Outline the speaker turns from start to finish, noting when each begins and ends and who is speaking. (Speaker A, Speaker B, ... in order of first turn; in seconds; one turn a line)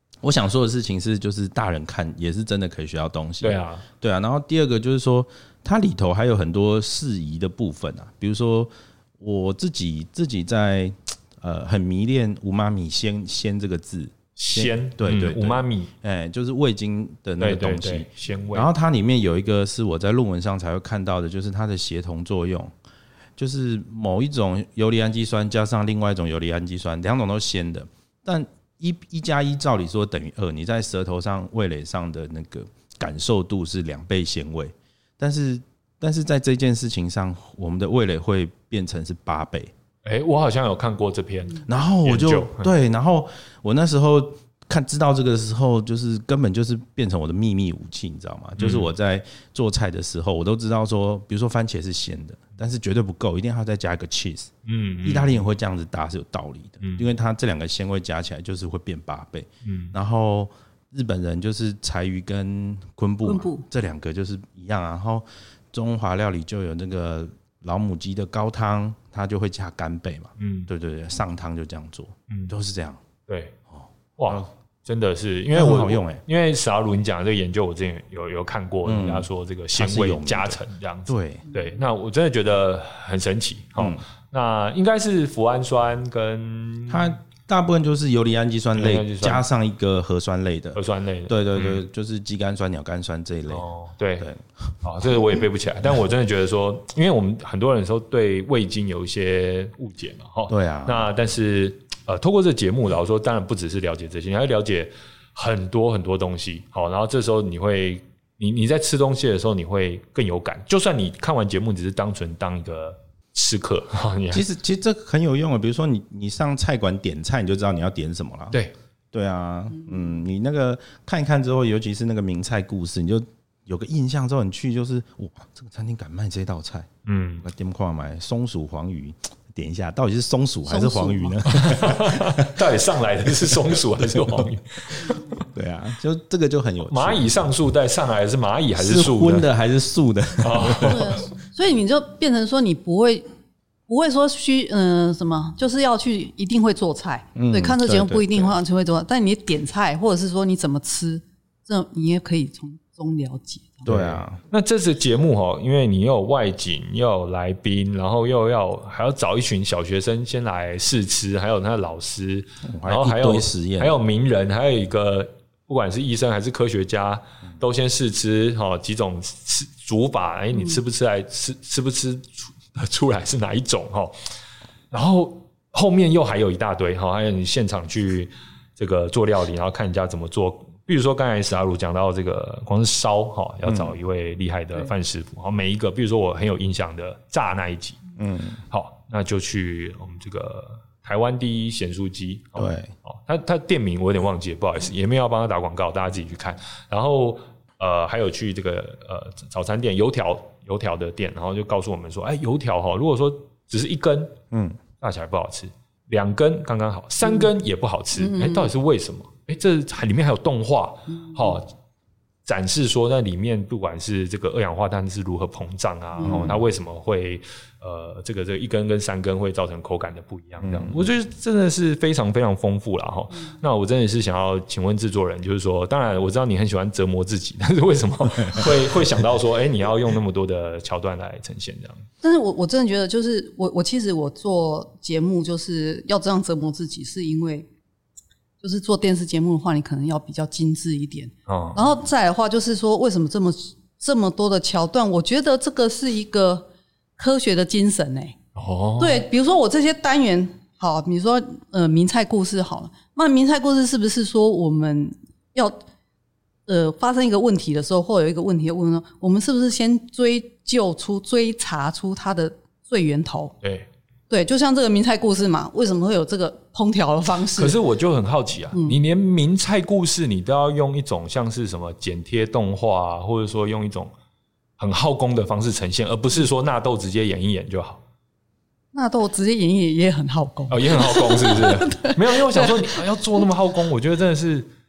Speaker A: 0.2-22.7
Speaker B: 3.4-3.9
Speaker B: 14.4-15.9
Speaker B: 17.4-18.7
Speaker A: 23.4-39.7
Speaker B: 40.0-42.7
Speaker A: 41.7-54.5
Speaker B: 48.6-48.9
Speaker B: 54.7-55.4
Speaker A: 55.0-73.0
Speaker B: 56.8-57.1
Speaker B: 59.6-59.9
Speaker C: 63.2-63.6
Speaker B: 70.4-70.7
Speaker B: 73.3-73.6
Speaker A: 73.7-74.5
Speaker B: 74.2-87.2
Speaker A: 75.5-76.2
Speaker A: 78.8-81.5
Speaker A: 83.8-84.0
Speaker A: 86.9-93.7
Speaker B: 88.8-89.4
Speaker B: 90.8-91.8
Speaker B: 93.5-94.3
Speaker A: 94.2-94.7
Speaker B: 94.8-114.4
Speaker A: 100.5-101.1
Speaker A: 114.3-118.6
Speaker A: 119.1-126.9
Speaker B: 127.1-127.5
Speaker A: 127.4-132.6
Speaker C: 130.7-131.4
Speaker B: 131.5-135.4
Speaker A: 134.0-134.5
Speaker A: 135.5-137.4
Speaker B: 136.9-139.5
Speaker A: 138.8-141.2
Speaker B: 140.4-141.2
Speaker C: 140.8-143.3
Speaker C: 143.9-154.1
Speaker A: 147.3-148.5
Speaker A: 153.9-154.4
Speaker B: 153.9-174.2
Speaker A: 162.7-164.0
Speaker B: 174.9-188.0
Speaker A: 183.7-184.0
Speaker A: 188.2-188.6
Speaker B: 188.7-204.4
Speaker A: 192.6-192.9
Speaker A: 204.5-204.8
Speaker B: 205.0-211.7
Speaker C: 208.2-208.7
Speaker C: 211.2-211.5
Speaker B: 212.4-232.1
Speaker C: 216.2-216.6
Speaker A: 216.2-216.6
Speaker A: 220.6-221.1
Speaker C: 232.2-237.7
Speaker C: 238.6-246.7
Speaker B: 241.5-241.8
Speaker C: 247.2-248.4
Speaker B: 248.6-249.2
Speaker C: 249.0-255.8
Speaker C: 256.7-263.5
Speaker B: 263.6-263.9
Speaker C: 264.3-267.8
Speaker B: 267.6-274.1
Speaker C: 268.7-269.0
Speaker B: 274.8-278.0
Speaker C: 278.9-283.0
Speaker B: 280.7-284.7